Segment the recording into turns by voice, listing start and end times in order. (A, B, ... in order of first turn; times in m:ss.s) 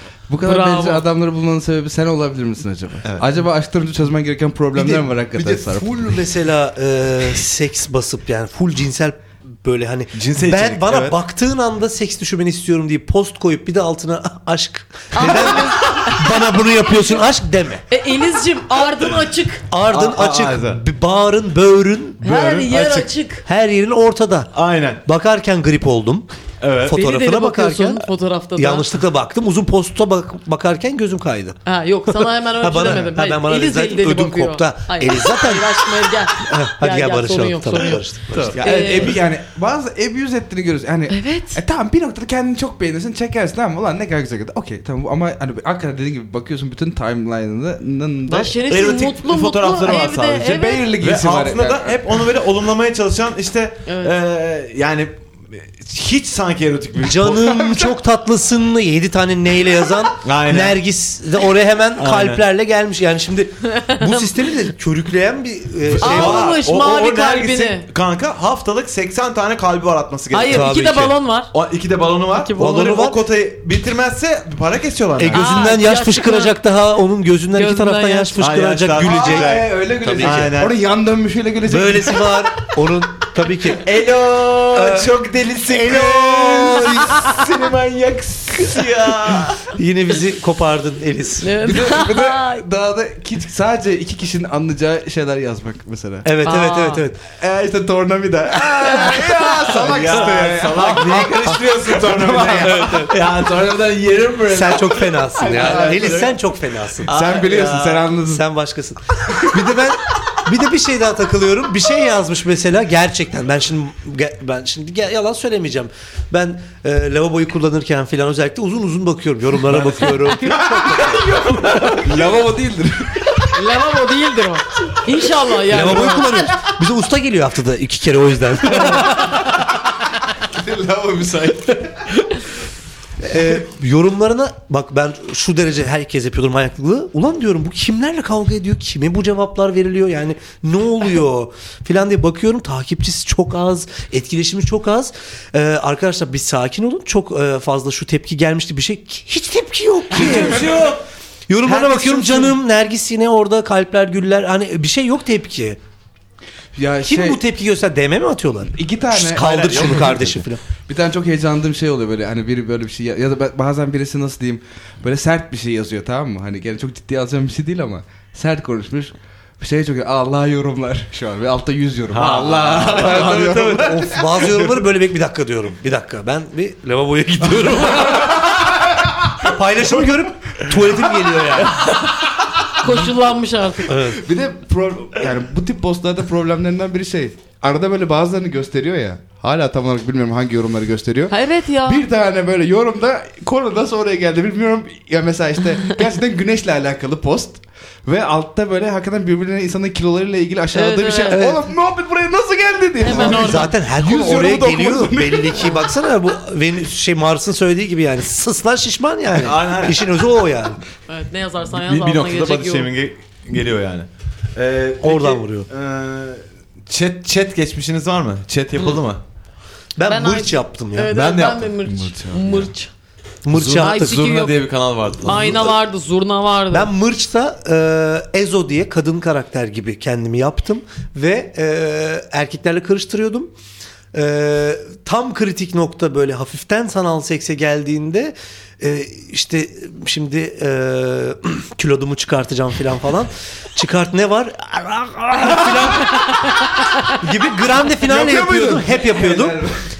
0:00.3-0:05.9 A
0:00.4-0:01.0 B
0:04.7-0:17.8 C
0:10.1-0:11.2 D
0:15.1-0:16.2 B
0:17.9-0:19.6 B
0:19.7-0:24.5 C
0:19.9-0:20.8 D
0:22.2-0:23.4 B
0:22.4-0:22.7 D
0:24.5-0:25.0 D
0:25.0-0:26.3 C
0:26.6-0:27.0 D
0:26.8-0:38.6 C
0:26.9-0:28.9 B
0:31.6-0:38.0 B
0:38.4-0:48.6 A
0:38.6-0:39.2 B
0:41.1-0:41.6 B
0:48.3-0:50.9 B
0:48.7-0:57.5 D
0:50.4-0:52.0 A
0:53.8-0:54.2 B
0:57.0-1:06.6 C
0:57.3-0:57.9 A
1:00.2-1:00.8 D
1:02.0-1:02.4 D
1:03.8-1:04.3 B
1:05.9-1:10.7 D
1:06.0-1:07.8 B
1:10.3-1:11.5 B
1:10.4-1:11.1 C
1:11.5-1:15.5 D
1:12.3-1:12.8 B
1:12.6-1:13.2 C
1:15.2-1:20.5 C
1:15.3-1:16.5 B
1:17.5-1:18.4 B
1:18.4-1:20.8 D
1:19.0-1:22.4 A
1:21.7-1:23.9 C
1:23.7-1:29.7 D
1:24.7-1:25.1 C
1:25.7-1:27.6 C
1:28.5-1:31.5 C
1:31.4-1:32.6 B
1:31.6-1:36.3 A
1:36.2-1:37.2 C
1:36.4-1:37.0 B
1:37.4-1:43.1 A
1:39.0-1:39.7 B
1:39.7-1:46.3 D
1:40.8-1:41.3 C
1:44.5-1:47.1 C
1:45.4-1:46.3 A
1:47.0-1:48.4 A
1:47.0-1:48.1 D
1:48.2-2:01.4 C
2:00.4-2:03.4 A
2:03.5-2:06.3 B
2:05.6-2:09.4 C
2:08.8-2:09.6 A
2:10.4-2:12.2 A
2:13.2-2:30.8 C
2:30.1-2:31.0 D
2:31.5-2:35.8 C
2:31.7-2:32.4 D
2:36.7-2:37.4 A
2:37.0-2:40.6 C
2:38.7-2:40.1 A
2:39.3-2:40.4 D
2:40.8-2:54.8 A
2:52.1-2:53.4 D
2:52.8-2:58.7 C
2:58.0-2:58.3 A
2:59.2-3:01.8 C
3:02.8-3:04.0 B
3:03.9-3:04.2 C
3:04.1-3:25.8 A
3:11.3-3:12.0 B
3:20.7-3:21.4 B
3:21.3-3:21.6 C
3:23.0-3:23.7 B
3:23.1-3:30.8 C
3:29.4-3:30.0 D
3:31.1-3:32.9 B
3:31.7-3:39.2 D
3:35.0-3:35.7 C
3:40.0-3:41.2 C
3:40.0-3:42.9 B
3:41.1-3:41.9 D
3:41.8-3:42.7 A
3:43.4-3:44.2 C
3:43.5-3:45.7 D
3:43.8-3:44.5 B
3:45.2-3:46.9 B
3:45.3-3:45.8 C
3:46.7-3:53.5 C
3:54.1-4:06.5 C
4:07.1-4:09.6 C
4:08.0-4:09.8 A